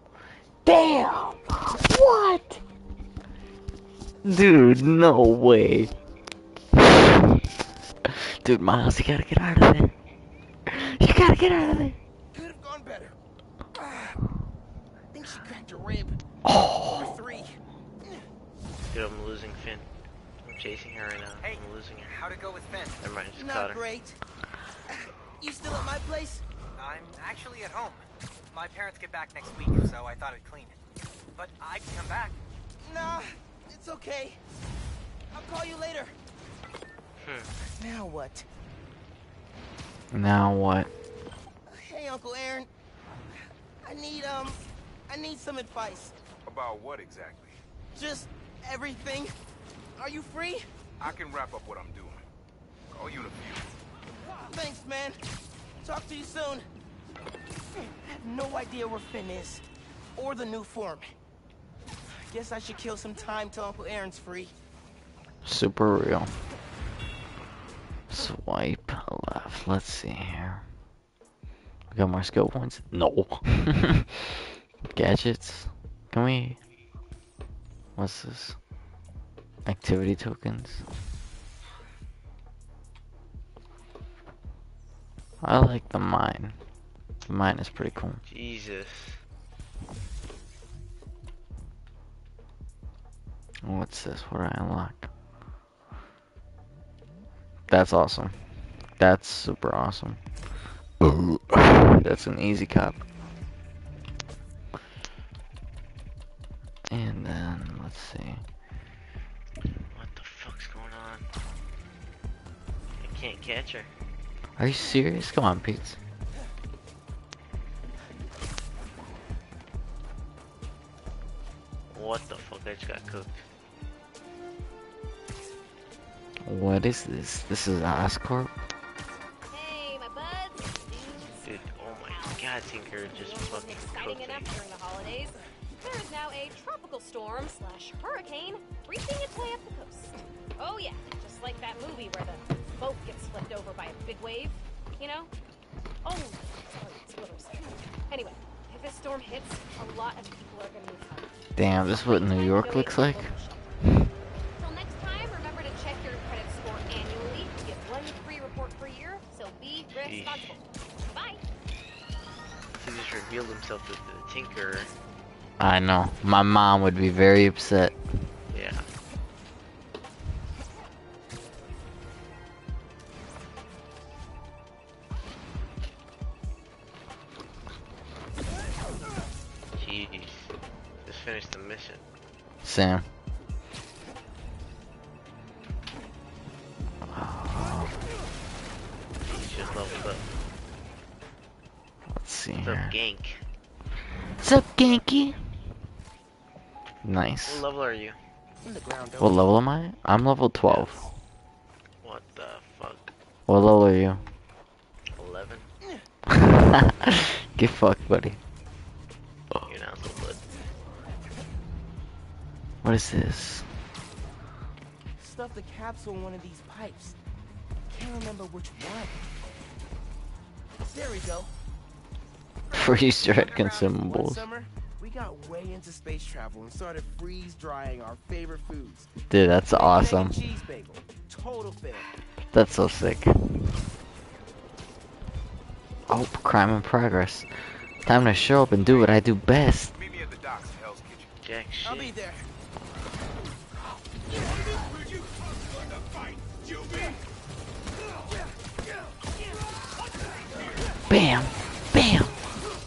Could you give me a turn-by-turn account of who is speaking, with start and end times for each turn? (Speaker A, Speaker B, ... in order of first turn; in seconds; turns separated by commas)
Speaker A: 0.6-2.6, Speaker A: 4.2-5.9, Speaker A: 6.7-7.5, Speaker A: 8.0-9.9, Speaker A: 10.7-12.0, Speaker B: 12.3-13.2, Speaker B: 13.7-14.2, Speaker B: 15.1-16.2, Speaker A: 16.4-17.1, Speaker B: 16.9-17.6, Speaker C: 18.9-19.9, Speaker C: 20.4-22.1, Speaker D: 21.4-23.0, Speaker C: 23.0-23.8, Speaker B: 23.4-24.2, Speaker B: 25.4-26.4, Speaker D: 26.8-30.8, Speaker D: 31.3-32.4, Speaker B: 32.8-34.4, Speaker B: 35.3-36.1, Speaker C: 37.2-37.5, Speaker B: 37.8-38.5, Speaker A: 40.1-40.9, Speaker B: 41.7-42.7, Speaker B: 43.8-46.1, Speaker E: 46.4-47.6, Speaker B: 47.9-49.4, Speaker B: 50.0-50.7, Speaker E: 51.0-52.2, Speaker E: 52.9-53.7, Speaker B: 54.4-55.2, Speaker B: 55.8-56.7, Speaker B: 58.0-59.6, Speaker B: 60.1-61.1, Speaker B: 62.3-64.5, Speaker A: 65.4-66.3, Speaker A: 68.1-70.6, Speaker A: 71.9-76.6, Speaker A: 78.0-78.6, Speaker A: 79.6-80.8, Speaker A: 85.4-86.5, Speaker A: 87.3-88.2, Speaker C: 88.3-89.2, Speaker A: 93.6-95.1, Speaker A: 97.7-98.3, Speaker A: 99.0-100.2, Speaker A: 101.0-103.0, Speaker A: 106.9-108.4, Speaker C: 109.9-111.3, Speaker C: 113.0-113.9, Speaker A: 114.6-116.0, Speaker C: 121.9-123.4, Speaker A: 126.5-128.5, Speaker F: 129.5-132.5, Speaker C: 131.4-134.6, Speaker F: 133.1-145.3, Speaker F: 146.0-153.7, Speaker A: 151.6-153.3, Speaker F: 154.6-161.4, Speaker C: 159.9-160.6, Speaker C: 162.8-164.9, Speaker A: 165.6-167.9, Speaker C: 168.5-168.8, Speaker C: 179.7-182.1, Speaker A: 182.6-183.1, Speaker A: 187.1-187.9, Speaker C: 189.2-190.2, Speaker A: 192.1-192.9, Speaker C: 192.6-193.4, Speaker A: 194.4-195.3, Speaker A: 197.0-197.6, Speaker C: 197.4-198.2, Speaker B: 198.6-199.4, Speaker A: 199.2-201.1, Speaker C: 202.0-203.1, Speaker A: 203.5-204.2, Speaker C: 205.1-205.7, Speaker A: 206.3-208.4, Speaker C: 209.7-210.5, Speaker A: 212.8-213.7, Speaker B: 215.2-217.2, Speaker B: 217.9-219.2, Speaker B: 220.9-221.5, Speaker B: 222.7-229.1, Speaker A: 222.7-224.4, Speaker A: 229.3-230.3, Speaker B: 229.7-232.1, Speaker A: 232.5-233.7, Speaker A: 236.1-237.5, Speaker A: 238.0-239.9, Speaker E: 239.9-241.3, Speaker C: 241.4-242.1, Speaker B: 241.8-242.4, Speaker E: 244.7-245.3, Speaker E: 245.8-247.1, Speaker A: 251.1-252.4